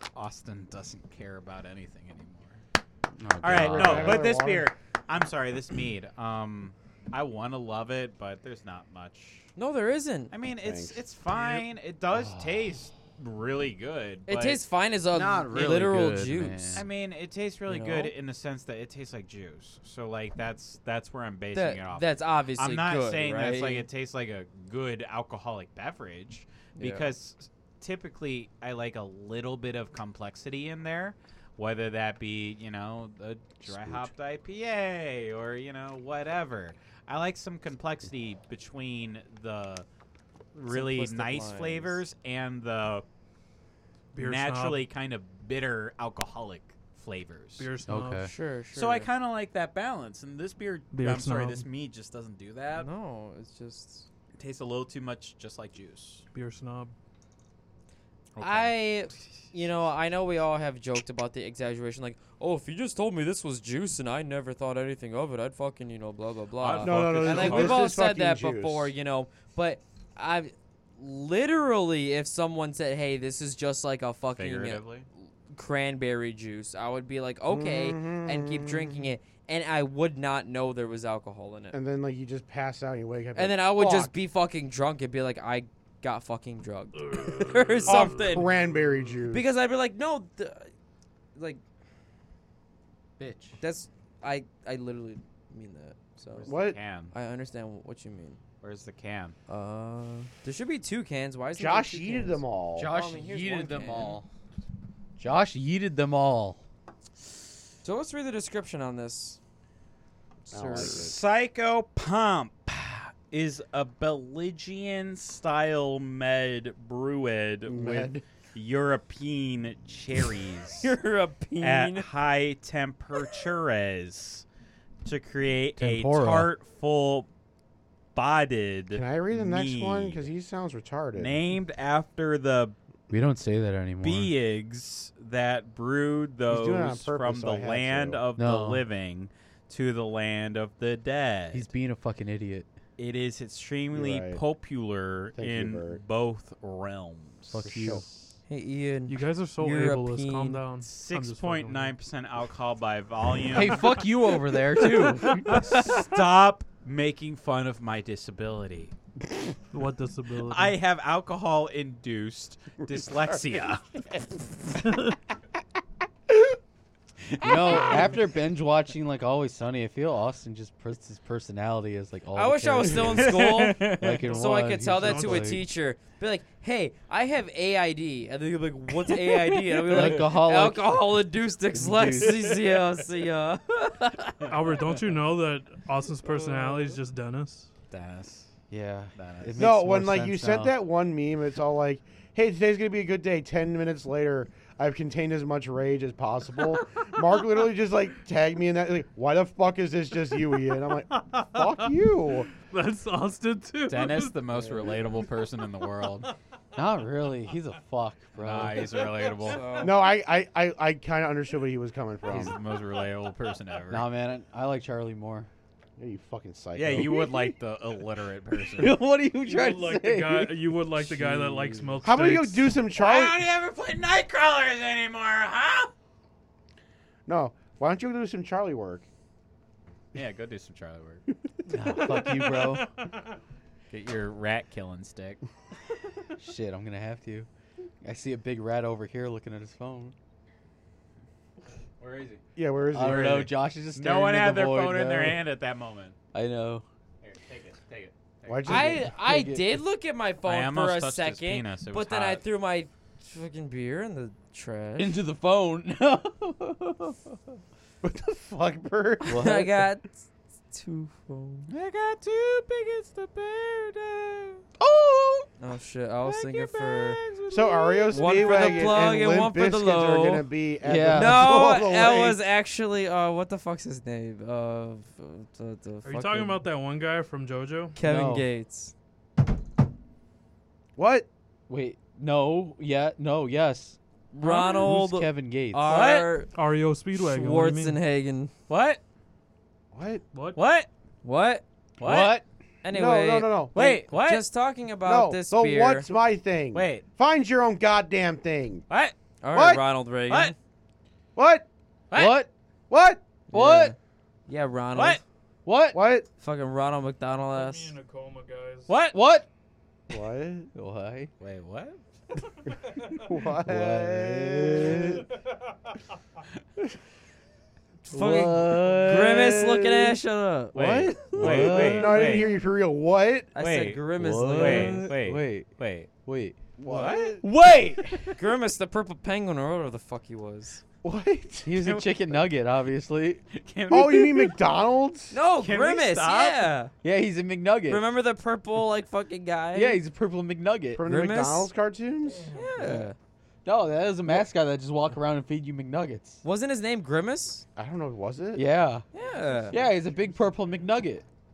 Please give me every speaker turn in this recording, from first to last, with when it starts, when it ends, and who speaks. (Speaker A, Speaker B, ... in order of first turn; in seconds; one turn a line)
Speaker A: 0.1-2.6
Speaker B: 3.2-4.3
Speaker A: 3.4-9.5
Speaker C: 3.5-4.7
Speaker D: 9.6-10.3
Speaker A: 10.3-14.6
Speaker C: 10.6-11.0
Speaker B: 12.1-12.5
Speaker D: 14.3-16.9
Speaker B: 15.1-16.8
Speaker A: 16.8-39.9
Speaker D: 17.7-18.1
Speaker D: 21.5-23.9
Speaker D: 26.8-27.1
Speaker B: 33.7-34.1
Speaker A: 40.5-43.0
Speaker D: 40.7-42.0
Speaker E: 44.1-44.9
Speaker A: 44.2-47.7
Speaker E: 47.6-48.3
Speaker B: 47.9-48.3
Speaker D: 48.2-49.1
Speaker A: 48.7-52.9
Speaker E: 50.9-51.6
Speaker D: 52.8-54.1
Speaker A: 54.4-56.3
Speaker E: 56.3-56.9
Speaker A: 58.4-58.7
Speaker D: 58.4-74.8
Speaker A: 66.6-67.9
Speaker C: 66.8-68.9
Speaker A: 74.4-75.1
Speaker D: 75.5-81.8
Speaker C: 77.5-79.0
Speaker C: 81.7-84.1
Speaker D: 83.3-88.5
Speaker E: 87.0-88.5
Speaker C: 87.9-89.5
Speaker D: 89.3-90.7
Speaker D: 91.3-91.6
Speaker B: 93.2-93.6
Speaker D: 93.6-96.6
Speaker A: 96.3-97.1
Speaker C: 96.5-96.8
Speaker D: 97.1-98.4
Speaker A: 98.6-99.4
Speaker D: 99.5-104.2
Speaker C: 101.6-102.9
Speaker B: 102.8-104.3
Speaker B: 105.2-106.6
Speaker D: 107.8-109.4
Speaker B: 110.5-110.9
Speaker C: 110.5-111.2
Speaker A: 110.7-120.9
Speaker C: 117.7-118.2
Speaker B: 117.8-118.1
Speaker D: 120.8-122.1
Speaker A: 121.6-124.5
Speaker A: 125.0-127.3
Speaker B: 125.8-126.5
Speaker A: 128.2-130.3
Speaker C: 128.9-131.4
Speaker A: 131.2-132.8
Speaker B: 133.1-134.3
Speaker A: 134.0-141.7
Speaker C: 136.5-138.2
Speaker B: 138.4-138.8
Speaker B: 141.5-142.7
Speaker A: 143.0-148.0
Speaker C: 143.9-144.4
Speaker C: 145.4-146.0
Speaker B: 147.5-148.1
Speaker C: 147.6-148.1
Speaker D: 148.5-150.6
Speaker E: 149.1-152.0
Speaker A: 150.8-153.9
Speaker B: 153.5-155.9
Speaker D: 154.8-155.6
Speaker E: 154.9-155.6
Speaker A: 155.5-158.9
Speaker E: 159.7-160.8
Speaker A: 160.5-163.8
Speaker A: 167.4-168.2
Speaker B: 167.4-175.6
Speaker D: 172.3-184.5
Speaker A: 173.2-174.2
Speaker E: 174.8-175.6
Speaker B: 179.9-181.0
Speaker B: 181.7-182.5
Speaker A: 184.4-185.0
Speaker E: 184.5-187.7
Speaker D: 186.3-187.0
Speaker A: 187.9-188.5
Speaker B: 188.7-190.8
Speaker A: 189.2-189.7
Speaker C: 189.6-202.5
Speaker E: 201.1-201.9
Speaker E: 202.5-204.4
Speaker A: 203.9-206.3
Speaker B: 206.8-209.1
Speaker A: 208.3-209.6
Speaker E: 209.2-209.8
Speaker D: 209.5-210.0
Speaker C: 209.8-212.6
Speaker A: 212.3-214.1
Speaker B: 213.9-215.5
Speaker C: 216.0-217.6
Speaker A: 216.8-219.0
Speaker B: 218.8-222.1
Speaker E: 219.4-222.8
Speaker C: 222.1-223.4
Speaker A: 222.9-225.9
Speaker C: 227.3-229.1
Speaker A: 230.1-231.2
Speaker B: 231.7-232.8
Speaker E: 231.9-233.3
Speaker A: 233.9-235.4
Speaker B: 236.4-237.5
Speaker B: 238.0-240.2
Speaker A: 242.0-242.4
Speaker C: 242.6-243.5
Speaker B: 242.9-245.4
Speaker A: 243.0-246.2
Speaker B: 246.3-246.8
Speaker A: 247.2-249.0
Speaker C: 248.5-249.1
Speaker D: 248.7-255.2
Speaker B: 249.0-249.8
Speaker A: 250.4-252.4
Speaker B: 255.0-257.4
Speaker C: 258.0-259.4
Speaker B: 259.2-259.8
Speaker D: 259.3-261.7
Speaker A: 261.7-264.6
Speaker B: 264.8-265.5
Speaker D: 265.6-267.2
Speaker A: 266.2-269.0
Speaker C: 267.5-272.5
Speaker D: 268.1-270.5
Speaker B: 270.8-271.7
Speaker D: 271.1-276.6
Speaker E: 276.0-278.0
Speaker D: 278.0-278.9
Speaker B: 278.0-278.5
Speaker C: 281.0-281.3
Speaker B: 281.7-285.9
Speaker D: 284.3-286.5
Speaker A: 285.9-286.3
Speaker E: 286.5-288.0
Speaker D: 287.1-288.5
Speaker A: 288.7-289.0
Speaker C: 289.9-290.2
Speaker E: 290.3-290.6
Speaker A: 290.6-290.9
Speaker D: 291.2-291.6
Speaker A: 292.0-292.4
Speaker B: 292.0-292.4
Speaker D: 292.8-296.1
Speaker C: 292.9-294.0
Speaker A: 293.8-294.4
Speaker C: 295.1-298.9
Speaker A: 296.7-297.1
Speaker A: 298.9-299.1
Speaker D: 299.4-300.6
Speaker C: 299.5-299.8
Speaker A: 300.3-300.6
Speaker C: 301.4-301.7
Speaker A: 302.1-302.4
Speaker B: 302.1-302.5
Speaker C: 302.9-303.2
Speaker D: 303.5-304.0
Speaker B: 303.5-303.9
Speaker D: 304.5-305.2
Speaker A: 304.9-305.2
Speaker B: 305.7-306.0
Speaker C: 305.9-306.3
Speaker D: 306.4-308.0
Speaker E: 307.5-308.9
Speaker A: 308.9-309.2
Speaker B: 309.1-309.5
Speaker C: 310.1-310.7
Speaker B: 310.7-311.3
Speaker A: 311.4-312.0
Speaker C: 313.2-315.3
Speaker B: 313.6-315.2
Speaker B: 318.1-319.9
Speaker C: 318.1-319.4
Speaker D: 318.1-321.1
Speaker A: 320.7-322.5
Speaker C: 320.8-323.5
Speaker B: 321.1-322.5
Speaker D: 323.6-325.1
Speaker A: 323.6-326.1
Speaker B: 324.2-325.7
Speaker B: 326.2-326.6
Speaker C: 326.8-327.4
Speaker A: 326.9-328.3
Speaker B: 327.4-328.3
Speaker D: 328.4-330.8
Speaker C: 331.0-331.9
Speaker B: 331.6-333.4
Speaker A: 333.5-334.6
Speaker C: 333.9-335.4
Speaker D: 335.3-336.9
Speaker A: 335.6-336.8
Speaker B: 337.0-338.0
Speaker D: 337.9-340.0
Speaker B: 339.7-341.1
Speaker C: 340.9-342.5
Speaker D: 341.0-341.7
Speaker D: 342.5-343.1
Speaker B: 342.8-343.1
Speaker B: 343.6-346.4
Speaker D: 346.4-347.6
Speaker C: 347.8-348.6
Speaker B: 348.6-349.0
Speaker D: 349.1-349.8
Speaker E: 349.1-350.6
Speaker B: 349.7-351.2